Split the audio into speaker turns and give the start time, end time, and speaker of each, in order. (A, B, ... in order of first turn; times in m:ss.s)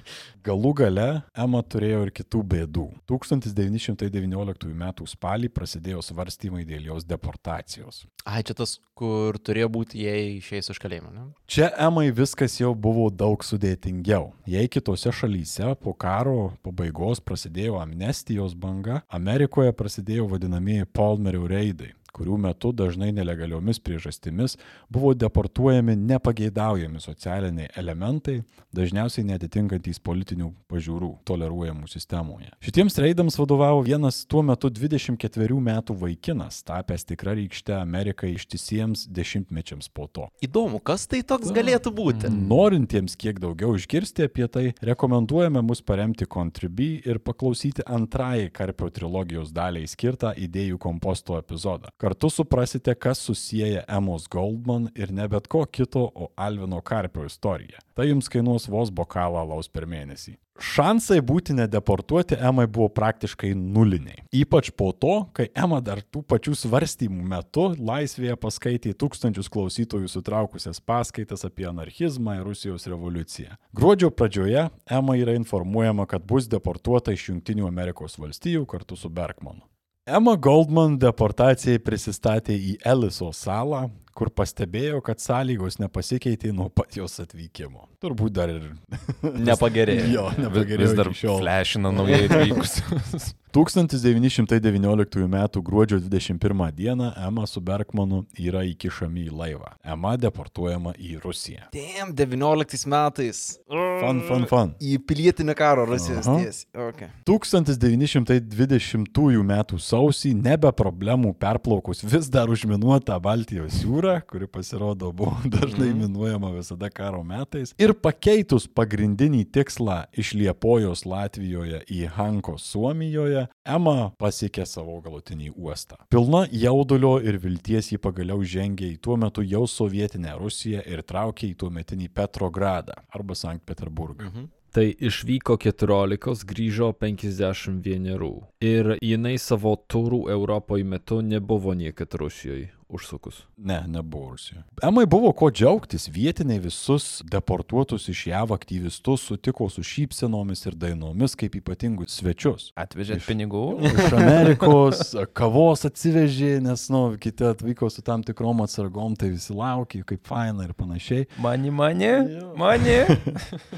0:00.4-0:08.1 A
0:08.3-0:11.4 B
0:11.5-0:40.3 A
0:40.4-0:42.4 B
0:41.4-1:32.6 A
0:42.1-0:42.5 C
1:29.4-1:30.3 B
1:30.0-1:33.4 C
1:32.0-1:32.6 B
1:33.5-1:41.7 A
1:41.7-1:47.1 B
1:44.0-1:44.8 A
1:45.9-1:46.5 A
1:47.2-2:14.3 A
1:55.7-1:56.1 B
2:14.2-2:14.5 B
2:14.7-2:23.4 D
2:23.6-2:41.3 A
2:32.8-2:35.0 C
2:41.4-2:43.6 C
2:42.1-2:43.4 A